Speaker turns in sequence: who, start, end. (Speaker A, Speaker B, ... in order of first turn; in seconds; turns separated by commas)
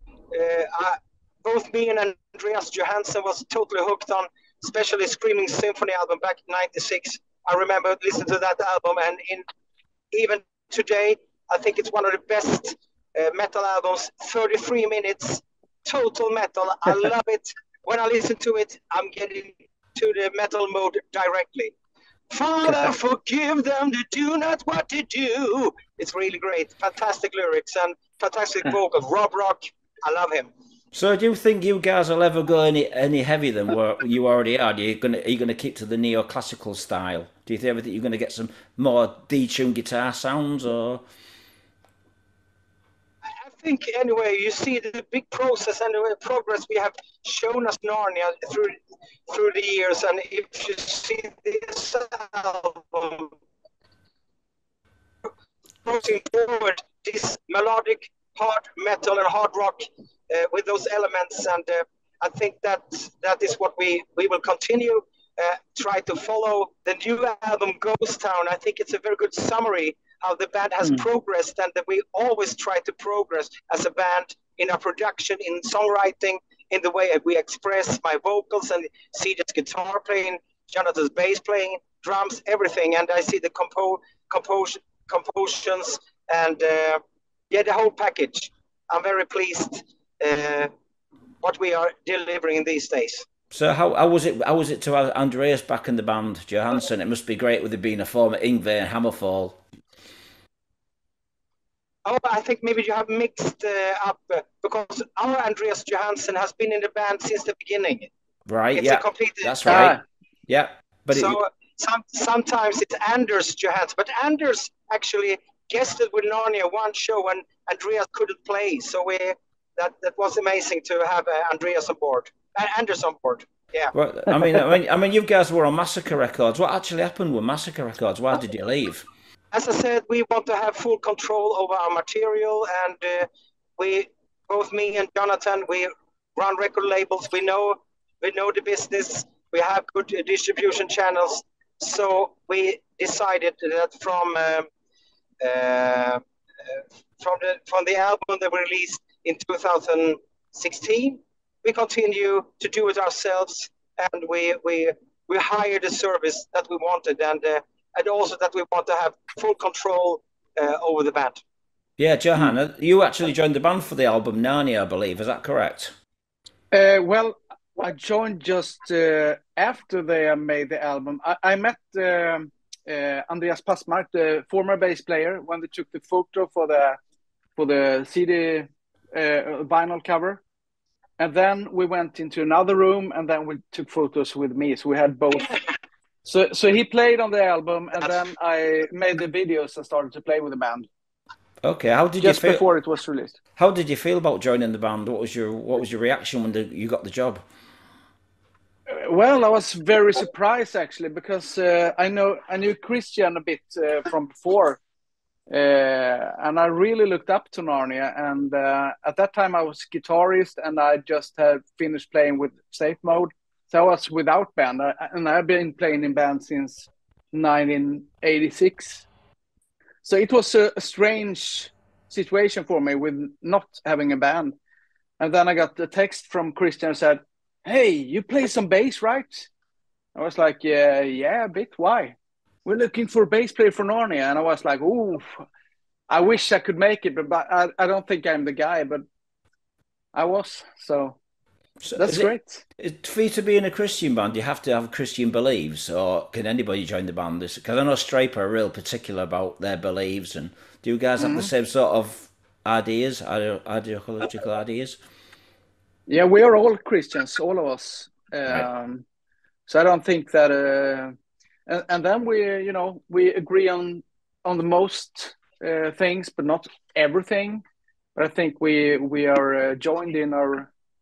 Speaker A: 0.3-9.4, Speaker A: 10.1-21.8, Speaker A: 22.3-30.5, Speaker B: 30.9-41.0, Speaker A: 43.4-53.3, Speaker A: 55.8-90.7, Speaker A: 91.4-93.2, Speaker B: 93.5-99.6, Speaker A: 102.0-108.1, Speaker B: 108.5-110.0, Speaker A: 108.7-109.9, Speaker C: 109.7-110.0, Speaker B: 110.5-111.4, Speaker A: 111.1-123.9, Speaker B: 123.9-129.1, Speaker A: 129.5-144.7, Speaker A: 145.4-161.4, Speaker B: 162.0-165.9, Speaker C: 166.7-177.0, Speaker C: 177.6-180.4, Speaker C: 181.2-185.6, Speaker C: 186.2-190.9, Speaker B: 191.6-192.6, Speaker C: 192.2-193.4, Speaker B: 193.6-197.4, Speaker C: 198.9-204.8, Speaker C: 205.5-219.1, Speaker C: 220.0-224.5, Speaker C: 225.2-229.5, Speaker C: 230.1-235.4, Speaker C: 236.1-239.0, Speaker C: 240.1-241.2, Speaker B: 241.8-255.0, Speaker C: 241.9-242.6, Speaker C: 251.2-251.5, Speaker C: 256.1-259.0, Speaker C: 259.7-261.1, Speaker C: 261.7-267.6, Speaker C: 268.1-270.7